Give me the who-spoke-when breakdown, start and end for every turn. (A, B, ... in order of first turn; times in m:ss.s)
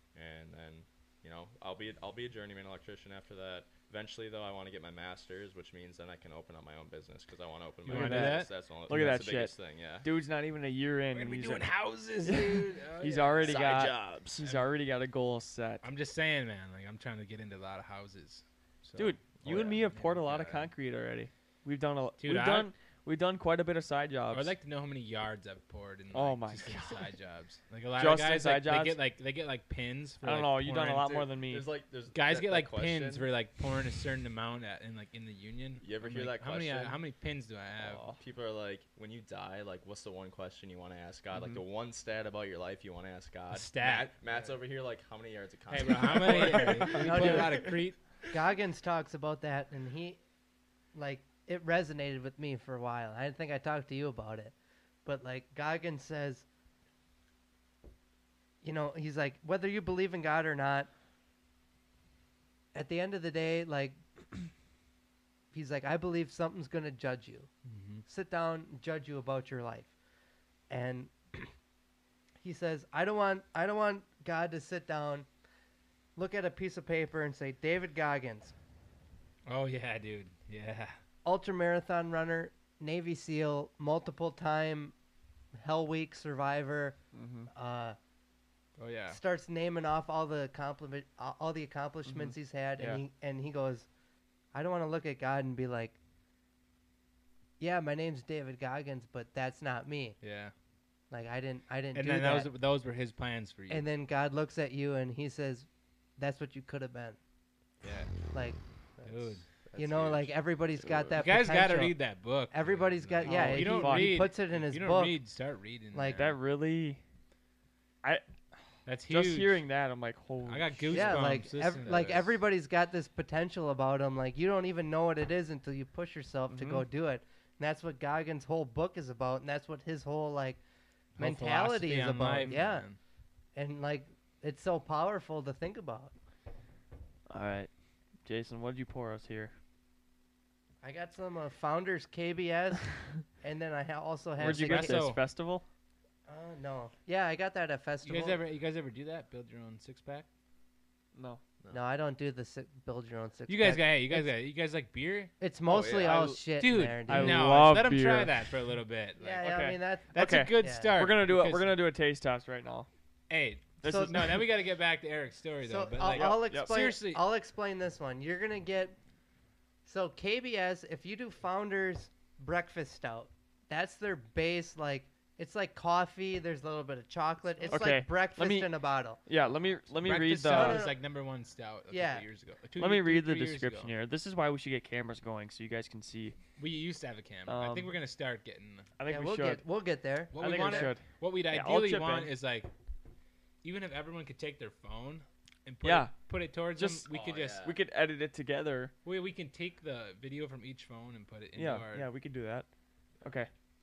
0:00.2-0:10.1 A
0:07.9-0:08.5 B
0:07.9-0:15.9 C
0:11.1-0:13.7 B
0:13.4-0:14.4 A
0:15.8-0:20.7 B
0:19.0-0:24.5 C
0:19.4-0:19.8 A
0:22.2-0:22.7 B
0:24.3-0:31.2 B
0:26.1-0:27.1 C
0:28.0-0:29.0 C
0:30.2-0:31.7 C
0:31.0-0:33.3 A
0:32.1-0:38.0 B
0:35.8-0:37.0 A
0:37.8-0:38.2 C
0:38.1-0:47.5 A
0:43.5-0:44.1 B
0:45.7-0:48.0 B
0:46.6-0:47.4 C
0:46.9-0:47.8 D
0:48.3-0:50.2 D
0:50.9-0:56.5 D
0:58.6-1:00.9 D
1:02.7-1:04.5 D
1:05.5-1:07.5 D
1:07.7-1:08.0 B
1:08.1-1:09.9 D
1:10.7-1:11.5 D
1:12.4-1:15.3 D
1:16.2-1:18.5 D
1:19.5-1:21.0 B
1:21.2-1:25.0 D
1:25.6-1:27.0 D
1:27.1-1:27.5 C
1:27.5-1:28.0 D
1:28.8-1:29.2 B
1:29.1-1:33.9 D
1:32.1-1:33.0 C
1:34.5-1:36.0 D
1:37.6-1:40.2 D
1:40.2-1:40.5 B
1:41.1-1:42.5 D
1:42.0-1:43.9 B
1:43.7-1:47.2 D
1:47.8-1:48.1 B
1:48.3-1:52.0 D
1:49.0-1:49.4 B
1:49.7-1:50.3 A
1:51.2-1:56.3 B
1:52.5-1:55.2 D
1:53.2-1:54.3 C
1:55.9-1:56.2 D
1:56.2-1:57.0 C
1:58.9-1:59.6 B
1:59.1-2:01.4 C
2:00.5-2:02.3 B
2:00.9-2:10.6 D
2:06.5-2:06.9 C
2:11.2-2:13.0 B
2:11.2-2:12.9 D
2:13.6-2:16.1 D
2:17.3-2:17.7 C
2:18.2-2:19.6 C
2:20.8-2:25.0 D
2:24.4-2:25.6 C
2:24.4-2:25.2 B
2:26.3-2:28.4 D
2:28.0-2:30.3 B
2:31.2-2:31.4 C
2:31.7-2:34.3 D
2:33.5-2:35.3 B
2:35.4-2:37.6 D
2:35.7-2:36.3 A
2:36.6-2:39.4 B
2:37.1-2:38.3 C
2:39.2-2:40.9 D
2:39.4-2:42.9 C
2:40.1-2:41.7 B
2:43.3-2:47.2 B
2:43.8-2:44.4 C
2:43.8-2:44.2 D
2:45.6-2:49.0 D
2:46.0-2:46.8 C
2:49.9-2:59.2 D
2:57.7-3:00.8 C
3:00.0-3:03.9 B
3:00.4-3:01.0 D
3:01.9-3:02.3 D
3:02.8-3:06.4 C
3:06.6-3:08.9 B
3:07.5-3:07.9 C
3:09.0-3:09.6 C
3:09.1-3:10.9 D
3:10.3-3:12.7 B
3:10.4-3:12.3 C
3:13.6-3:17.7 B
3:15.8-3:16.1 C
3:16.8-3:17.1 C
3:17.1-3:17.8 A
3:17.6-3:18.9 C
3:19.0-3:22.1 B
3:21.6-3:22.7 C
3:23.2-3:23.5 C